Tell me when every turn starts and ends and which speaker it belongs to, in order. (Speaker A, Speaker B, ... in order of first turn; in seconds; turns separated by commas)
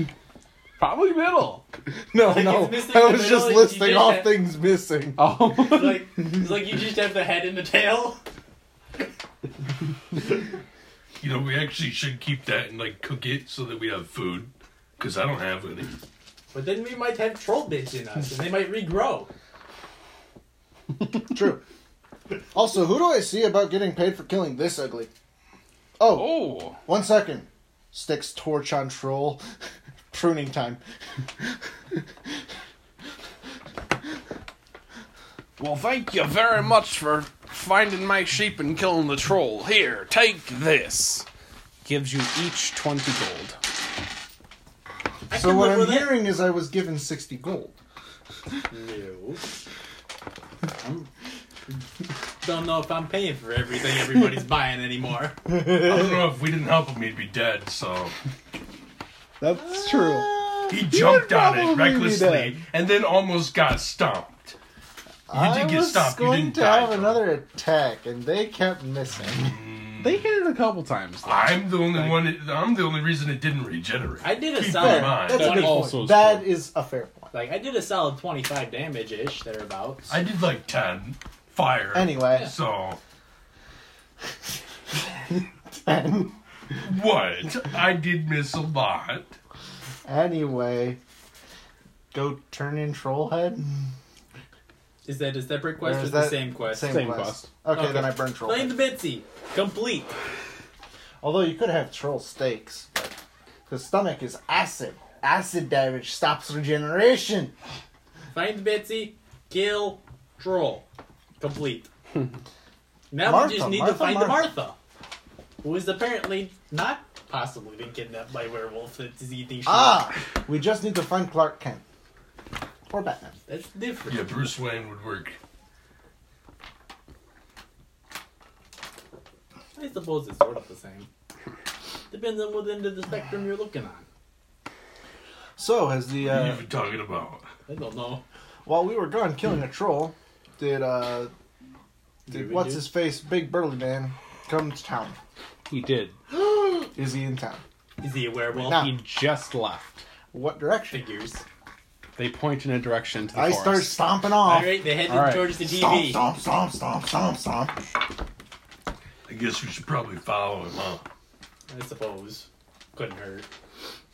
Speaker A: 0.8-1.6, Speaker B: 1.9-5.3, Speaker C: 2.2-4.4, Speaker A: 5.2-6.1, Speaker C: 5.6-8.2, Speaker D: 11.2-16.0, Speaker C: 16.5-19.3, Speaker B: 21.2-21.6, Speaker B: 22.5-25.1, Speaker B: 26.0-29.4, Speaker A: 26.1-26.8, Speaker B: 30.1-30.8, Speaker B: 31.4-32.0, Speaker A: 35.6-41.3, Speaker A: 41.8-43.6, Speaker C: 45.3-46.2, Speaker B: 45.3-47.8, Speaker C: 48.7-49.4, Speaker C: 50.8-51.1, Speaker C: 52.4-55.4, Speaker D: 55.7-58.2, Speaker A: 59.4-62.6, Speaker B: 59.6-60.8, Speaker D: 60.7-64.6, Speaker B: 65.3-69.6, Speaker D: 65.3-67.3, Speaker D: 69.3-70.2, Speaker A: 70.0-72.0, Speaker D: 71.2-75.6, Speaker C: 74.2-76.0, Speaker B: 74.7-77.3, Speaker A: 75.3-76.5, Speaker C: 77.3-80.2, Speaker D: 80.1-83.0, Speaker B: 81.9-82.5, Speaker B: 85.2-86.4, Speaker D: 86.8-89.4, Speaker B: 90.0-91.0, Speaker B: 92.1-93.7, Speaker C: 95.0-97.1, Speaker B: 95.8-98.8, Speaker A: 96.8-97.5, Speaker C: 97.7-100.2, Speaker B: 101.2-103.2, Speaker B: 103.7-107.5, Speaker C: 108.3-110.9, Speaker C: 111.4-111.9, Speaker C: 113.1-114.8, Speaker B: 113.2-114.5, Speaker C: 115.6-120.1, Speaker B: 119.7-121.8, Speaker B: 122.9-123.4, Speaker C: 123.5-124.4, Speaker D: 124.1-125.4, Speaker C: 129.8-131.1, Speaker C: 132.1-134.1, Speaker B: 135.6-136.7, Speaker D: 136.2-137.5, Speaker C: 137.7-138.2, Speaker B: 138.7-141.3, Speaker C: 142.3-142.8, Speaker B: 142.3-145.2, Speaker A: 145.7-146.2, Speaker B: 146.3-147.6, Speaker C: 148.0-148.9, Speaker B: 148.5-148.9, Speaker A: 148.7-150.0, Speaker B: 150.3-151.0, Speaker C: 150.9-151.4, Speaker A: 152.2-154.0, Speaker B: 153.3-154.8, Speaker C: 154.4-156.2, Speaker A: 155.1-155.5, Speaker B: 155.6-157.8, Speaker D: 159.3-161.1, Speaker C: 161.7-163.5